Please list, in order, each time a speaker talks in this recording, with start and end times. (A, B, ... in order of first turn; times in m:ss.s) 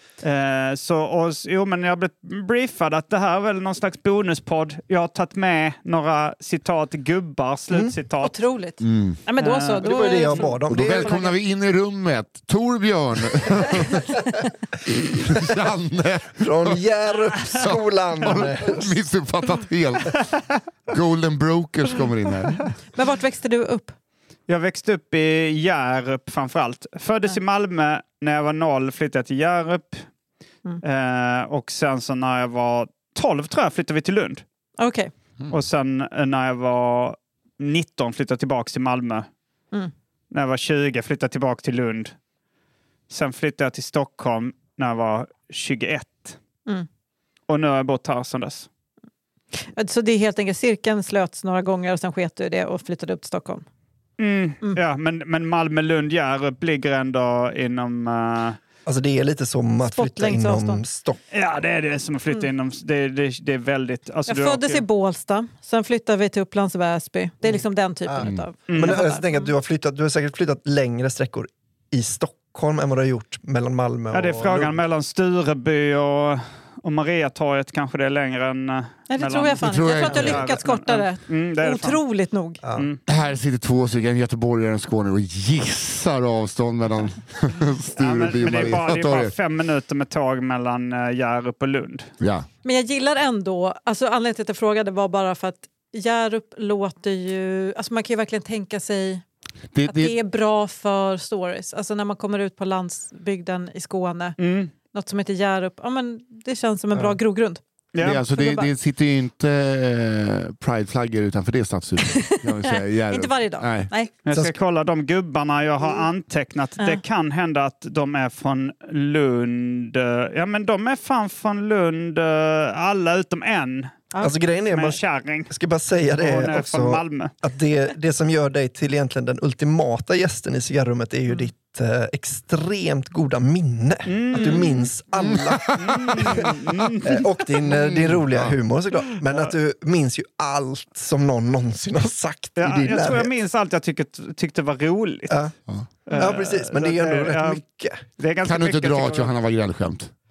0:00.2-0:08.4 A
0:07.7-0:08.0 B
0:08.2-0:11.3 C
0:08.8-0:09.2 D
0:09.4-0:11.3 B
0:09.4-0:10.5 A
0:10.6-0:14.2 D
0:14.8-0:20.2 D
0:16.4-0:19.0 B
0:20.9-0:22.7 D
0:22.9-0:23.9 C
0:24.5-0:30.1 A
0:30.8-0:34.4 A
0:34.8-0:35.1 C
0:35.5-0:39.3 A
0:40.3-0:42.1 A
0:43.1-0:46.4 A
0:47.5-0:48.7 A
0:49.6-0:53.6 C
0:54.2-0:58.6 A
0:58.8-1:01.2 B
0:59.9-1:00.8 C
1:01.3-1:04.8 A
1:04.3-1:09.5 C
1:07.4-1:14.7 B
1:08.2-1:08.4 D
1:08.7-1:09.0 A
1:14.1-1:22.0 A
1:19.1-1:22.6 C
1:19.6-1:20.4 D
1:22.6-1:22.9 B
1:22.7-1:23.0 A
1:23.0-1:29.3 D
1:28.0-1:32.1 A
1:32.2-1:32.5 D
1:32.6-1:39.2 C
1:39.7-1:40.1 D
1:39.8-1:44.4 C
1:44.4-1:44.7 A
1:44.9-1:48.7 C
1:47.9-1:48.2 A
1:48.0-1:53.9 D
1:52.1-1:54.1 C
1:54.2-2:04.1 A
2:04.1-2:04.4 C
2:04.2-2:16.5 B
2:04.6-2:05.5 A
2:06.2-2:07.3 A
2:14.0-2:14.9 A
2:15.2-2:16.5 D
2:15.7-2:17.4 A
2:17.0-2:23.3 B
2:17.7-2:18.6 D
2:19.2-2:19.5 A
2:22.6-2:25.4 A
2:26.1-2:27.6 A
2:26.1-2:28.0 B
2:28.2-2:29.4 A
2:28.4-2:30.1 D